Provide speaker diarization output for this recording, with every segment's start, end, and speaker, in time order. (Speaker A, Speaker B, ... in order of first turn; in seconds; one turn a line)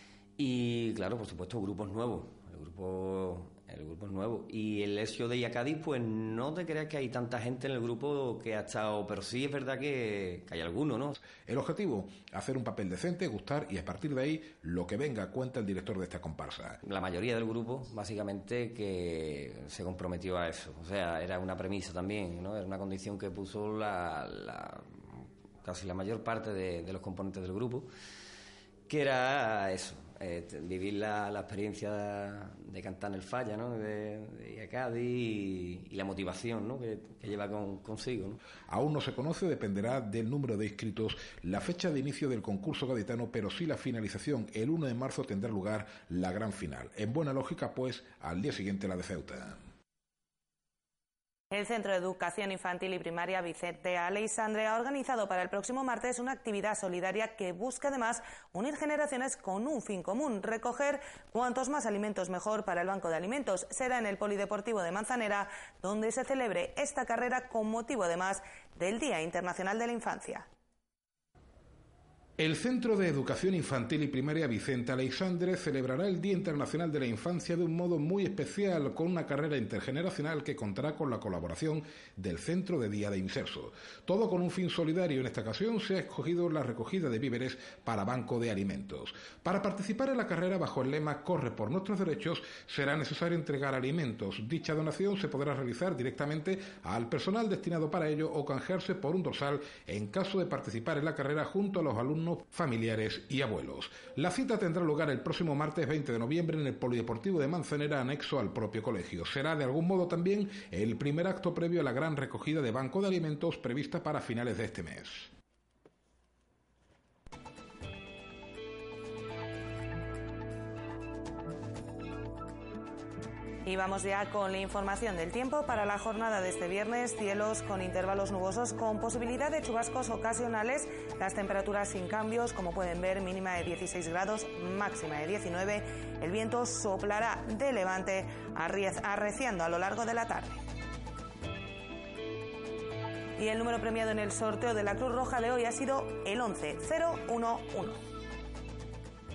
Speaker A: 0.4-11.2
Speaker B: 11.4-16.8
Speaker A: 16.8-27.9
Speaker A: 28.9-38.4
Speaker B: 38.7-49.6
Speaker C: 51.5-70.5
Speaker B: 72.4-115.3
Speaker C: 123.7-140.6
Speaker C: 143.4-148.0